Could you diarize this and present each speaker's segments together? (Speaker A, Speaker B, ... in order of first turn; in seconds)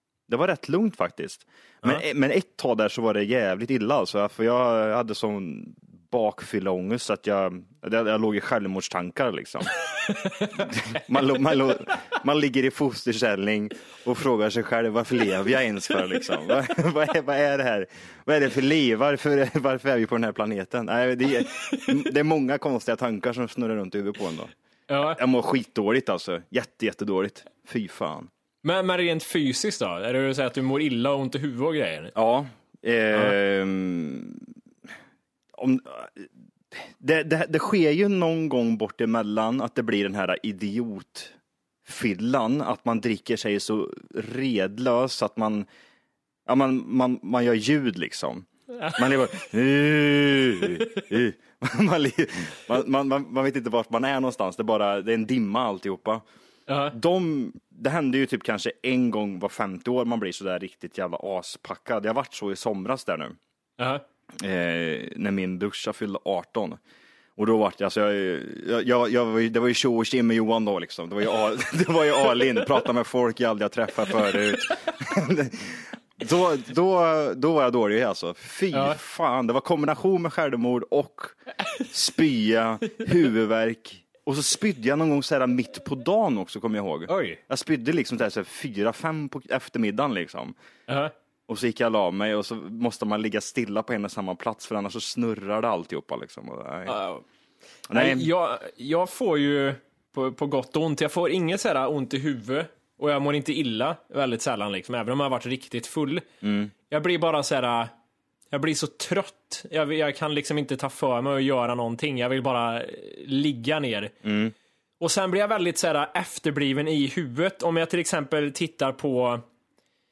Speaker A: 0.3-9.7, 10.6-24.5, 25.1-28.3, 32.1-34.5, 35.5-41.3, 41.8-45.7, 46.5-56.2, 56.9-63.4, 64.4-66.8, 67.4-90.5, 91.5-97.0, 97.9-98.3, 106.4-106.7, 114.2-114.5
Speaker B: 10.0-11.0, 24.9-25.2, 28.6-32.1, 48.7-49.1, 56.7-56.9, 78.7-79.0, 87.1-87.4, 90.9-91.1, 96.8-97.2, 97.9-106.2, 106.9-107.9, 108.5-114.1, 115.0-119.4